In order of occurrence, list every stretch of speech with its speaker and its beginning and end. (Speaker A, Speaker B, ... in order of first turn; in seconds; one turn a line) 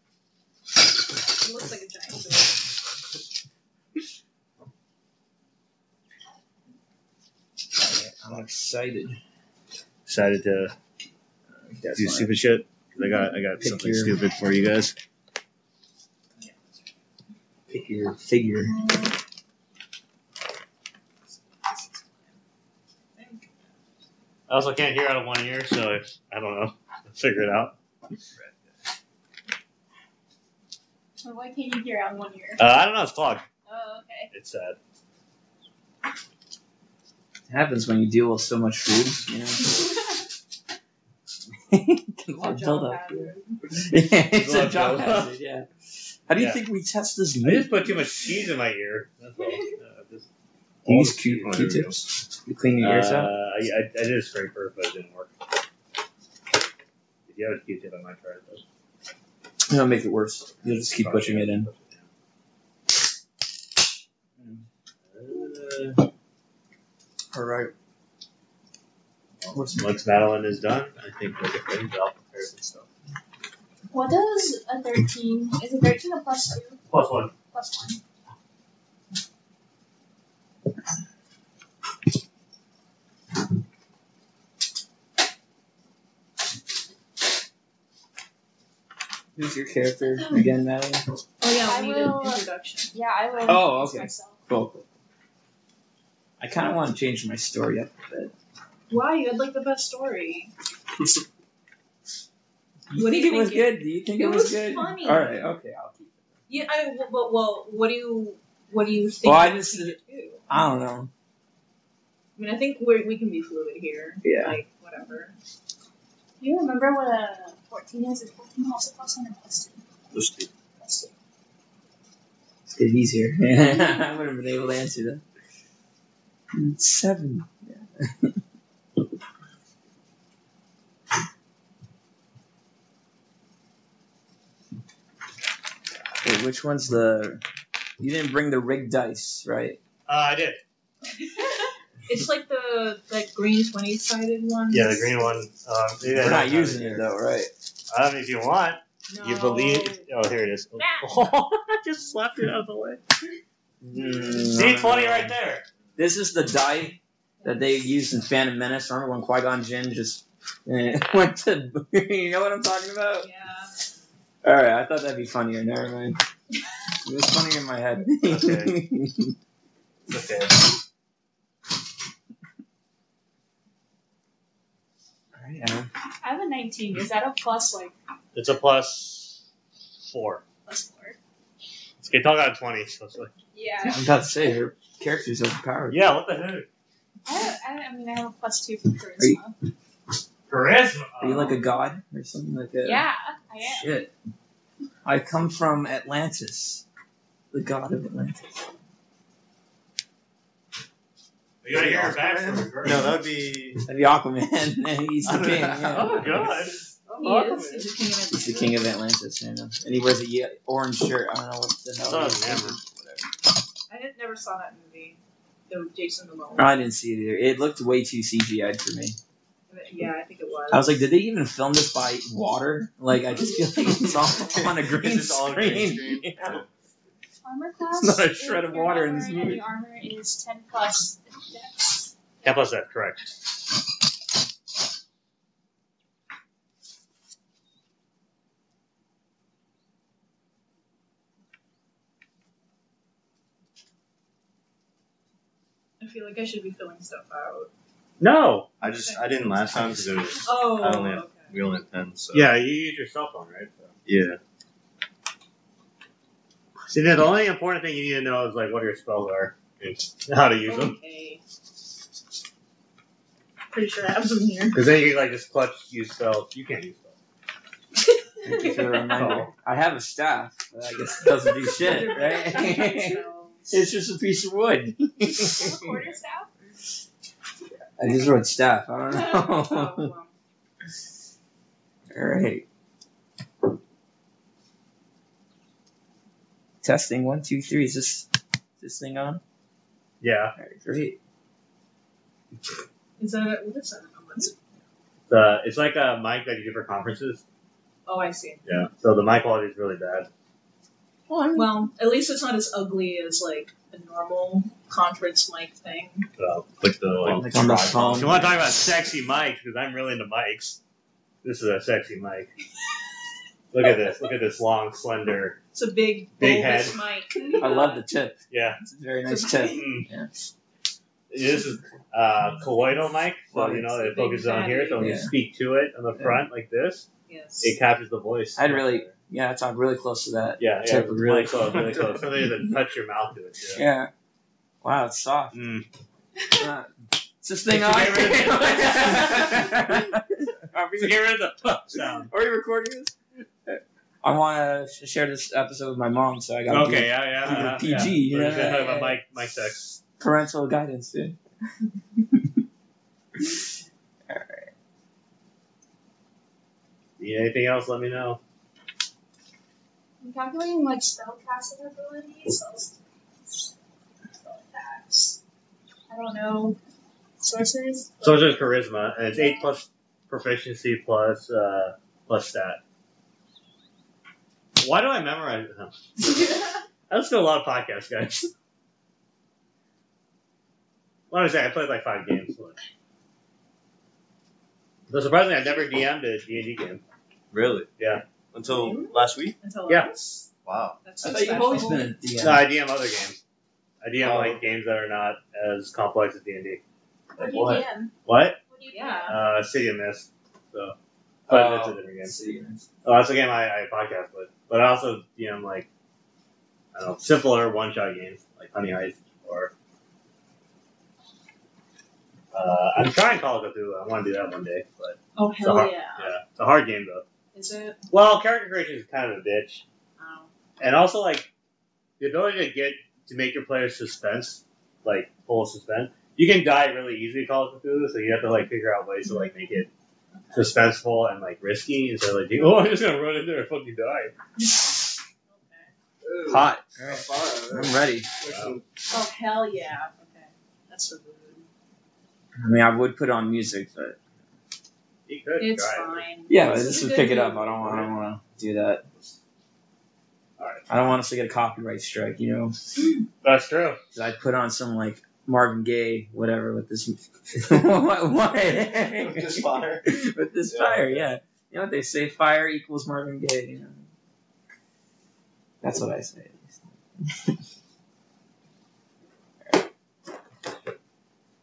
Speaker A: 1.4-2.7
Speaker B: 7.8-9.2
Speaker C: 10.1-10.7
Speaker B: 11.6-12.3
Speaker C: 11.9-14.9
Speaker B: 13.6-14.2
Speaker A: 16.4-16.9
Speaker B: 17.7-18.7
Speaker A: 18.7-19.1
Speaker A: 21.3-22.3
Speaker A: 23.1-23.7
Speaker C: 24.5-27.8
Speaker D: 31.2-32.6
Speaker C: 32.6-33.5
Speaker A: 33.7-34.3
Speaker D: 34.0-34.3
Speaker C: 34.3-34.8
Speaker B: 37.5-39.9
Speaker B: 41.7-45.7
Speaker A: 42.3-43.6
Speaker C: 44.3-45.3
Speaker B: 46.3-47.7
Speaker C: 46.4-46.6
Speaker C: 47.4-50.3
Speaker B: 50.9-53.3
Speaker E: 50.9-51.9
Speaker C: 51.3-51.8
Speaker C: 52.8-55.3
Speaker C: 57.3-58.6
Speaker B: 59.7-61.7
Speaker C: 60.6-62.0
Speaker B: 64.4-64.6
Speaker C: 65.1-66.0
Speaker B: 67.3-67.7
Speaker C: 69.4-72.9
Speaker B: 69.5-69.9
Speaker D: 73.9-76.8
Speaker C: 76.9-77.3
Speaker D: 77.5-78.0
Speaker B: 89.4-91.1
Speaker A: 91.4-92.9
Speaker D: 91.7-94.4
Speaker B: 93.5-94.9
Speaker B: 96.4-98.3
Speaker A: 98.9-100.5
Speaker B: 102.9-106.2
Speaker A: 102.9-105.4
Speaker A: 106.5-110.4
Speaker B: 109.2-110.0
Speaker B: 110.5-111.1
Speaker A: 112.4-115.3
Speaker B: 114.2-114.5
Speaker D: 116.4-119.8
Speaker E: 120.1-120.5
Speaker B: 122.7-125.2
Speaker B: 126.5-128.4
Speaker B: 136.2-137.4
Speaker B: 138.0-139.8
Speaker C: 140.1-140.6
Speaker A: 141.2-145.3
Speaker C: 144.7-147.1
Speaker B: 146.2-147.5
Speaker C: 147.9-153.0
Speaker A: 149.1-150.1
Speaker A: 150.8-151.2
Speaker B: 153.8-155.3
Speaker C: 154.4-155.7
Speaker B: 156.0-163.3
Speaker A: 157.4-157.8
Speaker A: 163.2-163.9
Speaker B: 164.4-166.2
Speaker B: 167.0-169.3
Speaker C: 168.2-168.7
Speaker E: 170.1-170.6
Speaker B: 175.3-175.9
Speaker D: 176.2-177.9
Speaker C: 178.3-179.4
Speaker C: 180.0-180.4
Speaker D: 180.7-181.2
Speaker C: 182.0-183.3
Speaker D: 183.5-184.0
Speaker B: 183.8-186.1
Speaker C: 185.9-186.7
Speaker D: 187.3-189.6
Speaker C: 190.5-191.6
Speaker B: 191.2-193.0
Speaker D: 192.8-194.0
Speaker B: 193.6-194.1
Speaker B: 195.1-196.8
Speaker B: 197.5-198.6
Speaker C: 201.6-203.2
Speaker E: 201.7-203.8
Speaker B: 203.9-206.7
Speaker C: 205.3-207.9
Speaker A: 207.2-208.8
Speaker B: 208.3-213.3
Speaker C: 212.0-212.8
Speaker A: 213.9-216.8
Speaker B: 216.6-219.2
Speaker A: 219.7-221.0
Speaker B: 220.7-226.6
Speaker E: 224.6-226.7
Speaker D: 227.4-232.1
Speaker B: 228.0-229.6
Speaker C: 232.4-233.3
Speaker A: 246.0-247.7
Speaker C: 248.2-248.7
Speaker E: 248.8-252.5
Speaker A: 248.8-249.3
Speaker B: 249.7-250.1
Speaker A: 250.4-251.5
Speaker C: 252.3-253.9
Speaker E: 254.1-254.4
Speaker C: 256.9-261.0
Speaker A: 260.6-261.4
Speaker A: 263.7-264.8
Speaker C: 264.7-267.1
Speaker A: 268.4-269.2
Speaker B: 268.4-276.0
Speaker C: 269.1-269.5
Speaker A: 271.4-273.7
Speaker D: 275.2-276.5
Speaker B: 278.0-280.1
Speaker A: 279.1-280.3
Speaker B: 282.1-282.7
Speaker B: 286.8-288.3
Speaker B: 288.8-289.4
Speaker C: 290.2-290.5
Speaker B: 290.6-291.2
Speaker A: 293.2-294.5
Speaker C: 295.3-297.4
Speaker A: 298.1-298.7
Speaker C: 298.7-300.3
Speaker B: 301.3-301.8
Speaker A: 301.5-306.3
Speaker C: 306.4-307.5
Speaker E: 306.8-308.5
Speaker B: 307.3-308.6
Speaker C: 308.0-310.8
Speaker C: 311.4-312.5
Speaker C: 313.7-315.6
Speaker A: 315.7-318.0
Speaker C: 316.4-317.0
Speaker B: 317.6-320.3
Speaker C: 318.5-318.8
Speaker A: 319.3-319.8
Speaker C: 319.7-320.1
Speaker C: 321.3-327.1
Speaker B: 323.5-324.0
Speaker A: 324.0-325.2
Speaker B: 325.0-325.3
Speaker A: 327.3-327.8
Speaker C: 327.6-329.1
Speaker B: 328.6-331.8
Speaker C: 330.6-333.8
Speaker B: 333.8-334.1
Speaker B: 334.8-335.6
Speaker C: 335.5-335.9
Speaker B: 336.6-341.2
Speaker C: 337.7-339.7
Speaker C: 341.0-342.3
Speaker B: 342.3-349.2
Speaker C: 346.7-349.9
Speaker B: 350.2-351.4
Speaker B: 352.1-352.5
Speaker B: 354.3-354.7
Speaker C: 357.2-358.4
Speaker D: 360.2-363.0
Speaker D: 364.4-365.4
Speaker D: 366.1-366.8
Speaker D: 367.4-368.4
Speaker C: 368.2-372.8
Speaker C: 374.8-375.9
Speaker C: 377.1-378.5
Speaker C: 381.3-382.8
Speaker C: 385.1-387.0
Speaker E: 387.5-387.9
Speaker C: 388.0-388.2
Speaker E: 388.5-389.6
Speaker A: 388.6-390.5
Speaker C: 389.9-390.1
Speaker E: 390.6-391.0
Speaker A: 391.0-392.1
Speaker B: 391.2-392.7
Speaker C: 392.4-393.4
Speaker C: 394.0-396.8
Speaker E: 394.2-394.8
Speaker D: 397.4-398.1
Speaker C: 397.4-398.6
Speaker D: 398.7-399.4
Speaker A: 398.9-399.4
Speaker C: 399.3-401.0
Speaker C: 401.5-402.4
Speaker B: 401.5-402.9
Speaker C: 403.0-405.9
Speaker C: 406.9-409.7
Speaker C: 412.5-417.2
Speaker A: 415.4-416.4
Speaker A: 417.5-418.0
Speaker C: 418.1-419.8
Speaker A: 420.2-420.5
Speaker C: 420.8-421.5
Speaker C: 422.2-429.9
Speaker A: 430.4-430.6
Speaker C: 430.5-434.3
Speaker A: 435.5-435.9
Speaker E: 436.2-438.8
Speaker C: 436.5-436.8
Speaker B: 436.9-438.3
Speaker C: 438.4-438.8
Speaker A: 439.1-441.7
Speaker B: 442.6-444.2
Speaker C: 445.3-446.2
Speaker A: 445.6-447.9
Speaker B: 446.5-449.1
Speaker C: 450.6-450.8
Speaker B: 450.9-452.8
Speaker C: 453.4-454.0
Speaker B: 454.1-464.1
Speaker E: 459.0-460.2
Speaker E: 460.7-461.2
Speaker B: 465.8-467.6
Speaker C: 470.7-470.9